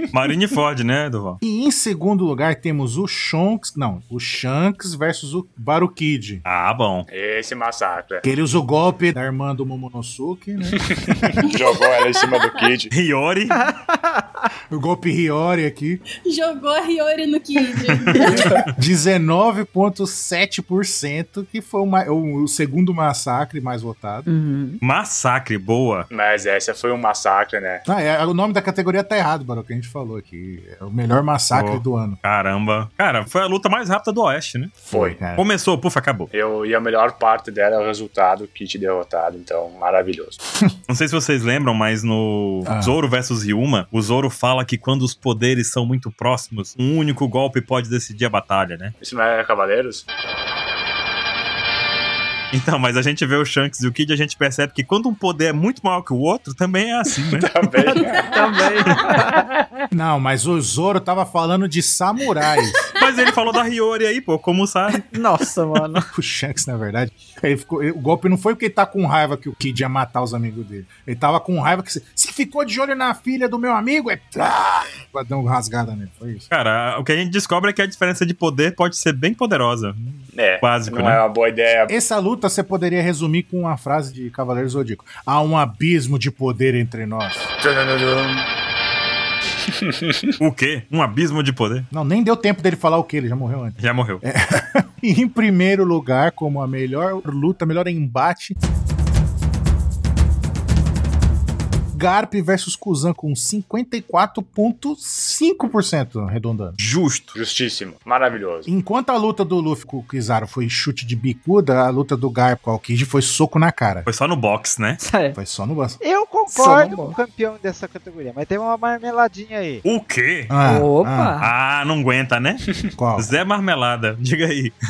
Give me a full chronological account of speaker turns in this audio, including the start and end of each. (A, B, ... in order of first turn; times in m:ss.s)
0:00.1-0:01.4 A
0:01.4-0:06.4 B
0:06.4-0:07.1 A
0:07.1-0:08.2 C
0:08.2-0:11.4 B
0:10.8-0:12.9 C
0:11.5-0:12.4 D
0:12.9-0:13.6 A
0:13.5-0:14.4 E
0:14.7-0:16.0 B
0:16.3-0:18.6 D
0:18.7-0:24.3 B
0:24.3-0:24.8 E
0:24.8-0:26.1 A
0:26.1-0:27.8 C
0:27.9-0:32.2 B
0:31.5-0:34.8 A
0:34.8-0:35.4 B
0:34.9-0:35.2 C
0:35.4-0:36.3 A
0:36.3-0:40.4 C
0:40.9-0:48.9 A
0:42.7-0:43.0 B
0:49.0-0:50.1 C
0:52.5-0:57.5 A
0:57.3-0:58.4 C
0:57.9-0:59.4 E
0:59.9-1:02.9 B
1:03.0-1:05.1 A
1:05.1-1:06.1 E
1:06.1-1:16.5 B
1:16.5-1:21.2 A
1:20.3-1:21.9 C
1:21.9-1:27.5 B
1:27.6-1:28.5 C
1:29.8-1:30.3 C
1:30.4-1:31.9 A
1:31.9-1:38.6 B
1:33.8-1:34.2 A
1:41.9-1:46.8 B
1:46.8-1:47.4 A
1:47.4-1:48.7 C
1:48.7-1:54.1 B
1:54.1-1:55.0 A
1:55.0-1:55.4 E
1:55.4-1:56.0 B
1:56.0-1:59.8 F
1:56.5-1:57.2 E
1:59.8-2:00.5 A
2:00.5-2:01.4 B
2:00.6-2:01.5 E
2:01.4-2:02.6 A
2:03.0-2:03.3 B
2:03.2-2:04.8 A